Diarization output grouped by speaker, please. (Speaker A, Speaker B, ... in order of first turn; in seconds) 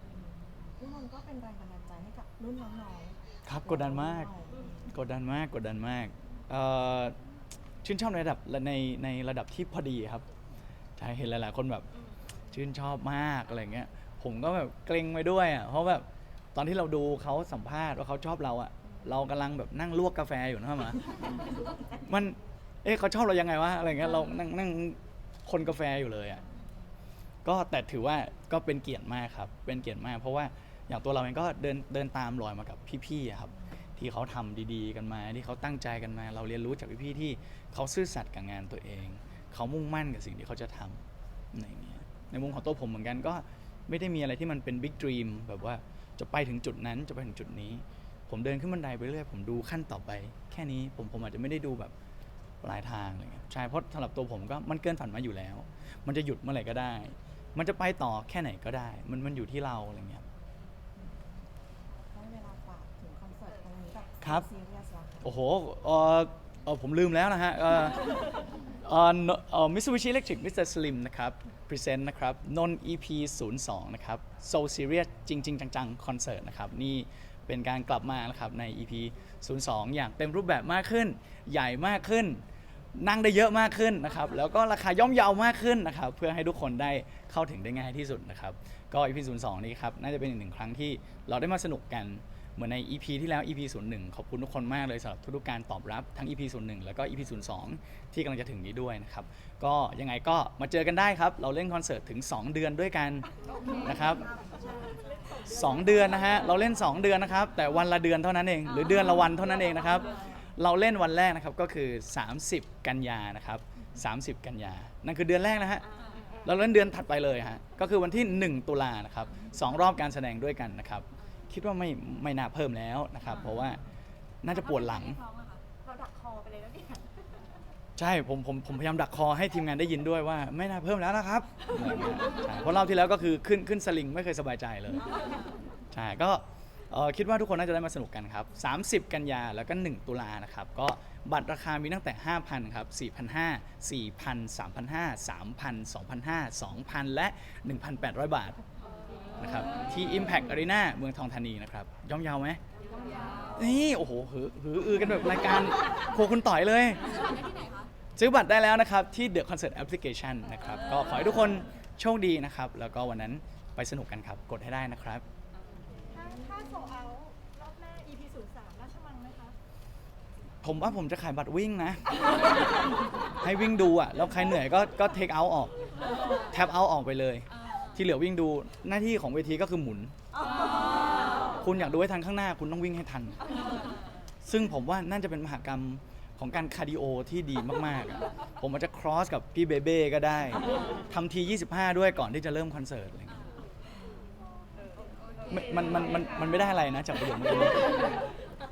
Speaker A: 0.1-5.0, 61.0-61.5, 62.1-65.3
Speaker B: 3.5-4.3, 4.9-7.2, 7.8-10.2, 11.0-11.9, 12.5-21.1, 22.0-26.4, 27.4-51.9, 52.6-60.3, 64.2-64.5, 65.2-82.4, 82.9-103.3, 103.8-104.3, 105.5-115.9, 116.4-123.8, 124.4-125.2, 128.0-135.2, 135.9-148.6, 149.4-152.6, 153.6-157.2, 158.2-165.2, 170.6-172.5, 173.4-175.7, 176.5-180.2, 181.6-183.8, 184.4-193.5, 195.5-198.2
Speaker C: 103.5-105.5, 116.0-116.3, 119.4-119.7, 124.5-125.6, 135.1-135.4, 149.2-150.4, 152.9-153.7, 157.0-157.9, 176.1-176.6, 177.5-178.0, 180.4-181.5, 183.8-184.1, 195.1-196.2
Speaker D: 103.6-103.9, 108.8-110.4, 115.8-116.8, 125.8-127.5, 152.8-153.5, 165.6-165.8, 180.4-181.6
Speaker E: 104.4-107.2, 109.9-110.3, 152.9-153.2, 166.1-169.6, 194.8-196.5